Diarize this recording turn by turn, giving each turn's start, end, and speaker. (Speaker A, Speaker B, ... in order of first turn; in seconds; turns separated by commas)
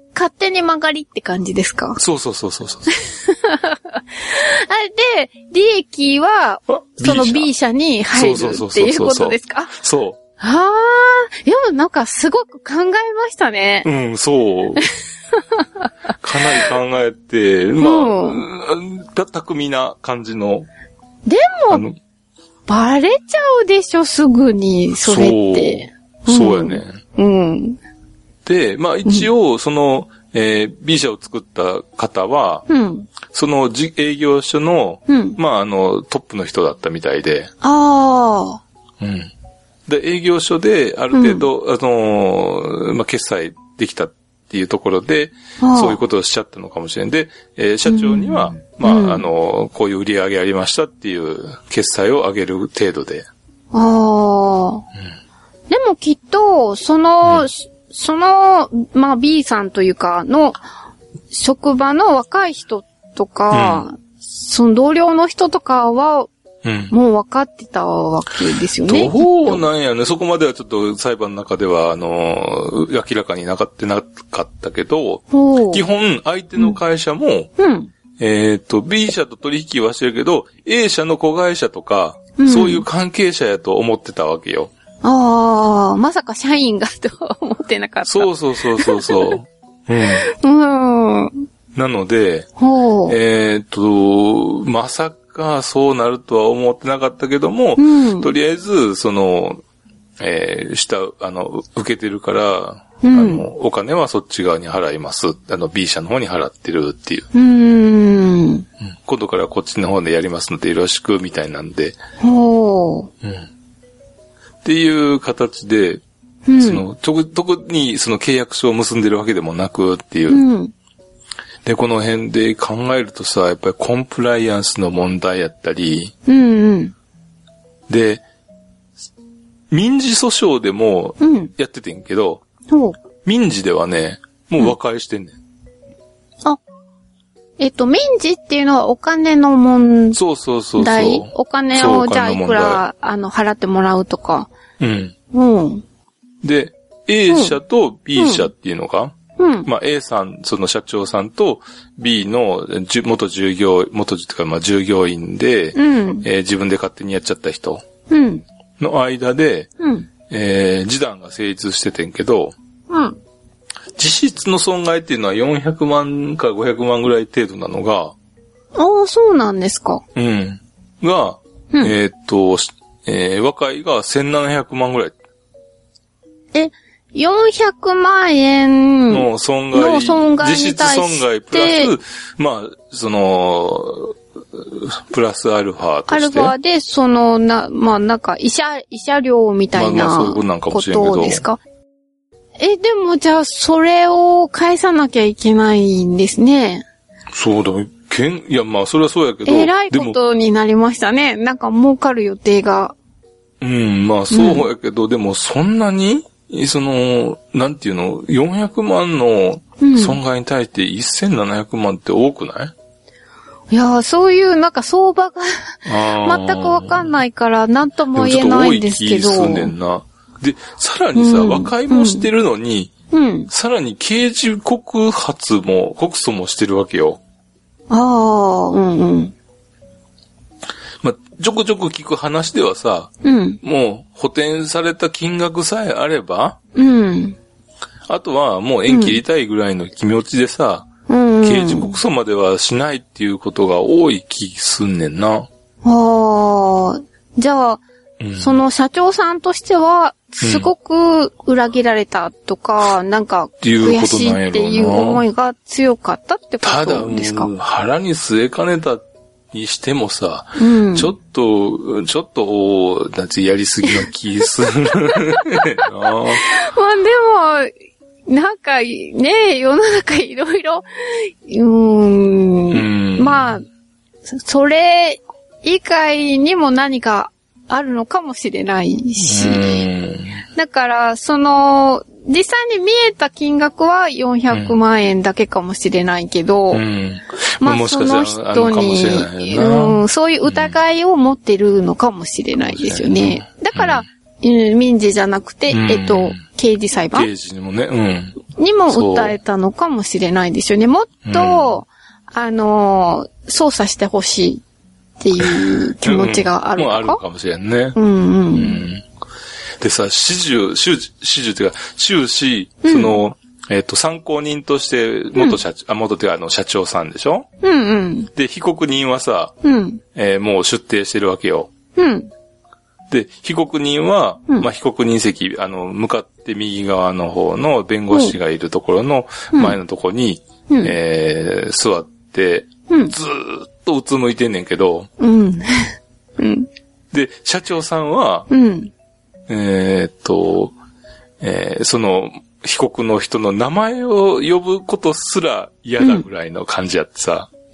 Speaker A: 0.1-2.0, Speaker B: 2.0-2.9, Speaker A: 3.0-9.7, Speaker B: 6.7-7.5, Speaker B: 8.1-10.2, Speaker A: 10.4-13.9, Speaker B: 13.8-14.9, Speaker A: 15.3-15.9, Speaker B: 16.2-20.7, Speaker A: 17.8-18.4, Speaker A: 21.3-21.8, Speaker B: 21.7-22.0, Speaker A: 22.7-27.8, Speaker B: 25.0-27.0, Speaker B: 28.4-32.6, Speaker A: 32.7-33.1, Speaker B: 33.2-37.5, Speaker A: 35.1-35.4, Speaker A: 37.6-38.6, Speaker B: 39.0-39.3, Speaker B: 39.9-53.2, Speaker A: 41.1-41.5, Speaker A: 45.6-46.0, Speaker A: 47.9-49.2, Speaker A: 53.7-54.9, Speaker A: 55.7-60.6, Speaker A: 61.3-66.3, Speaker B: 63.5-63.9, Speaker B: 66.6-66.9, Speaker A: 66.9-69.6, Speaker B: 68.8-77.5, Speaker A: 75.3-75.8, Speaker A: 77.6-77.9, Speaker B: 78.2-84.7, Speaker A: 82.4-82.8, Speaker A: 85.0-89.4, Speaker B: 88.0-90.3, Speaker A: 90.0-91.4, Speaker B: 91.7-92.5, Speaker A: 92.6-93.2, Speaker B: 93.0-99.6, Speaker A: 97.8-98.3, Speaker B: 100.2-107.3, Speaker A: 103.0-103.4, Speaker A: 107.3-108.7, Speaker B: 109.0-112.0, Speaker A: 112.2-113.1, Speaker B: 114.6-116.0, Speaker A: 116.5-116.8, Speaker B: 116.6-120.4, Speaker A: 120.3-120.7, Speaker B: 121.6-126.1, Speaker A: 126.2-126.9, Speaker B: 127.9-128.2, Speaker B: 129.7-132.4, Speaker A: 131.2-131.5, Speaker A: 132.7-132.9, Speaker B: 133.2-135.3, Speaker A: 137.6-140.2, Speaker B: 140.1-142.8, Speaker A: 140.8-144.5, Speaker B: 144.8-145.1, Speaker A: 145.3-145.8, Speaker B: 146.4-157.8, Speaker A: 147.3-147.6, Speaker A: 148.2-148.5, Speaker A: 149.4-149.7, Speaker A: 155.7-156.2, Speaker A: 158.1-158.4, Speaker B: 158.8-159.7, Speaker A: 159.8-160.1, Speaker B: 160.3-162.5, Speaker A: 162.9-163.2, Speaker B: 164.0-168.1, Speaker A: 168.7-170.0, Speaker B: 170.1-175.1, Speaker A: 176.5-181.9, Speaker B: 179.1-186.5, Speaker A: 186.1-191.6, Speaker B: 189.7-191.4, Speaker A: 192.6-196.8, Speaker B: 197.3-200.2, Speaker A: 199.4-202.9, Speaker B: 203.6-212.7, Speaker A: 204.3-204.7, Speaker A: 209.8-210.2, Speaker A: 213.7-219.7, Speaker B: 215.8-217.1, Speaker B: 218.1-222.9, Speaker A: 221.1-222.3, Speaker A: 223.1-223.5, Speaker B: 223.5-227.2, Speaker A: 227.9-229.3, Speaker B: 231.0-236.6, Speaker A: 233.2-233.6, Speaker A: 236.7-237.4, Speaker B: 238.1-240.9, Speaker A: 238.9-239.2, Speaker A: 241.1-241.9, Speaker B: 241.4-245.5, Speaker A: 245.8-247.8, Speaker B: 248.2-248.6, Speaker A: 248.4-257.5, Speaker B: 250.4-250.7, Speaker B: 253.6-255.2, Speaker B: 256.6-266.4, Speaker A: 260.6-261.1, Speaker A: 265.3-265.9, Speaker A: 266.4-267.7, Speaker A: 268.3-273.6, Speaker B: 272.7-273.6, Speaker A: 274.3-279.9, Speaker B: 279.2-280.4, Speaker A: 280.5-286.8, Speaker B: 284.5-284.8, Speaker B: 286.7-290.7, Speaker A: 287.6-297.3, Speaker B: 292.7-294.1, Speaker B: 295.7-296.4, Speaker B: 297.1-299.3, Speaker A: 298.5-304.6, Speaker B: 301.3-301.8, Speaker A: 305.2-307.2, Speaker B: 305.4-308.0, Speaker A: 307.9-308.9, Speaker B: 308.5-309.0, Speaker B: 309.8-317.5, Speaker A: 312.8-313.2, Speaker A: 317.6-318.3, Speaker B: 318.3-319.5, Speaker A: 319.6-320.0, Speaker B: 320.1-321.7, Speaker A: 321.9-322.3, Speaker B: 323.1-335.1, Speaker A: 328.1-328.4, Speaker A: 329.5-329.8, Speaker A: 330.7-330.9, Speaker A: 332.9-333.1, Speaker A: 335.2-336.7, Speaker B: 337.1-338.5, Speaker A: 338.5-338.9, Speaker B: 339.5-340.7, Speaker B: 341.4-347.5